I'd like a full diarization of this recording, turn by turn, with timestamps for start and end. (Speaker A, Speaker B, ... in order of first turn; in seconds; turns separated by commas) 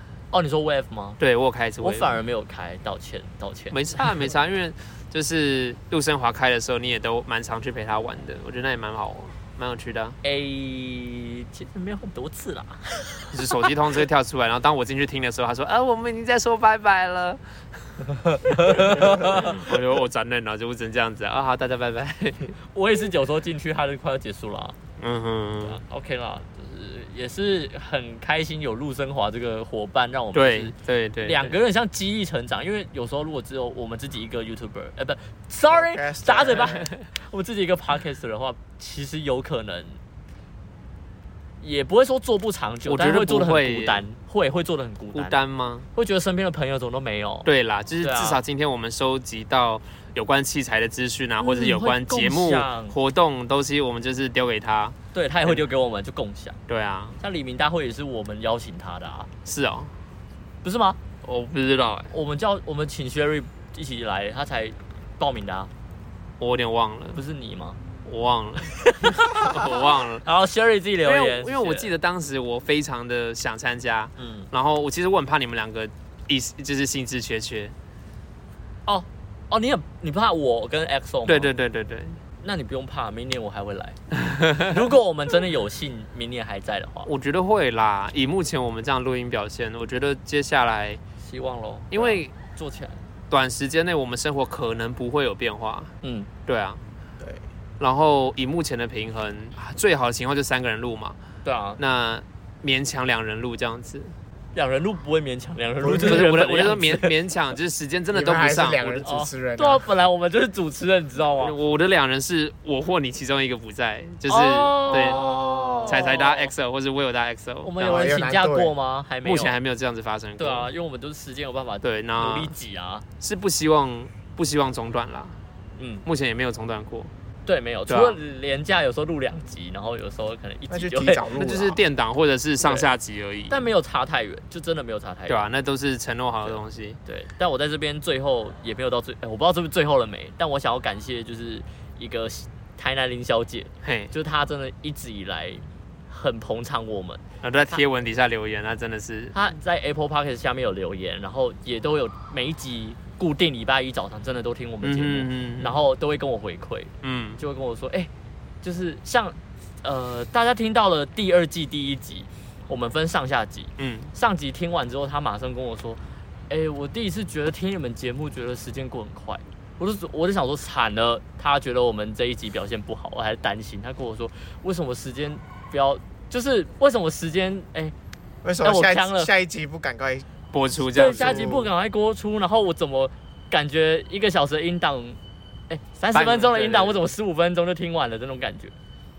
Speaker A: 0.3-1.2, Speaker B: 1.2-2.2, Speaker A: 1.8-4.0, Speaker B: 3.7-10.2, Speaker A: 10.2-13.7, Speaker B: 13.3-17.4, Speaker A: 18.1-19.7, Speaker B: 18.5-22.6, Speaker A: 22.7-24.8, Speaker B: 25.0-25.8, Speaker A: 25.6-40.0, Speaker B: 30.3-31.6, Speaker C: 35.7-36.9, Speaker B: 36.6-36.8, Speaker A: 41.6-45.4, Speaker B: 42.9-44.0, Speaker B: 45.1-45.9, Speaker A: 45.9-47.5, Speaker B: 47.4-55.6, Speaker A: 48.0-48.4, Speaker A: 51.4-52.9, Speaker A: 55.1-56.6, Speaker B: 56.7-57.2, Speaker A: 57.2-59.3, Speaker B: 59.5-59.9, Speaker A: 60.6-61.0, Speaker B: 61.2-62.1, Speaker A: 62.1-65.7, Speaker B: 66.4-67.2, Speaker A: 67.1-67.8, Speaker B: 68.0-70.2, Speaker A: 68.6-71.9, Speaker B: 71.0-77.7, Speaker A: 74.2-74.5, Speaker A: 78.8-81.5, Speaker B: 81.3-82.2, Speaker A: 82.4-87.1, Speaker B: 84.3-84.7, Speaker B: 87.0-91.0, Speaker A: 91.2-93.0, Speaker B: 91.9-92.3, Speaker B: 93.3-95.9, Speaker A: 96.0-96.3, Speaker B: 96.5-96.8, Speaker B: 97.8-101.2, Speaker A: 101.4-101.8, Speaker B: 101.8-104.1, Speaker A: 104.5-107.1, Speaker C: 105.8-106.3, Speaker B: 106.0-109.1, Speaker C: 108.1-109.9, Speaker A: 109.0-111.5, Speaker B: 111.4-115.2, Speaker A: 114.3-116.5, Speaker C: 114.9-116.2, Speaker B: 115.8-118.1, Speaker A: 117.6-119.5, Speaker C: 117.8-118.7, Speaker B: 119.2-120.7, Speaker A: 120.4-123.0, Speaker B: 121.8-122.5, Speaker B: 123.2-125.4, Speaker A: 125.8-126.0, Speaker B: 126.0-127.1, Speaker A: 127.4-131.2, Speaker B: 127.9-128.2, Speaker C: 130.7-131.8, Speaker B: 131.3-133.6, Speaker A: 132.6-132.9, Speaker A: 133.5-135.5, Speaker B: 135.3-137.0, Speaker A: 136.4-147.8, Speaker B: 143.8-144.1, Speaker B: 147.4-149.4, Speaker A: 149.3-158.1, Speaker B: 154.8-155.8, Speaker B: 157.0-157.4, Speaker A: 158.6-177.9, Speaker B: 163.8-164.1, Speaker C: 178.4-180.3, Speaker A: 178.6-179.3, Speaker B: 180.5-181.5, Speaker A: 180.9-185.2, Speaker C: 180.9-181.7, Speaker A: 185.7-188.7, Speaker B: 186.1-187.1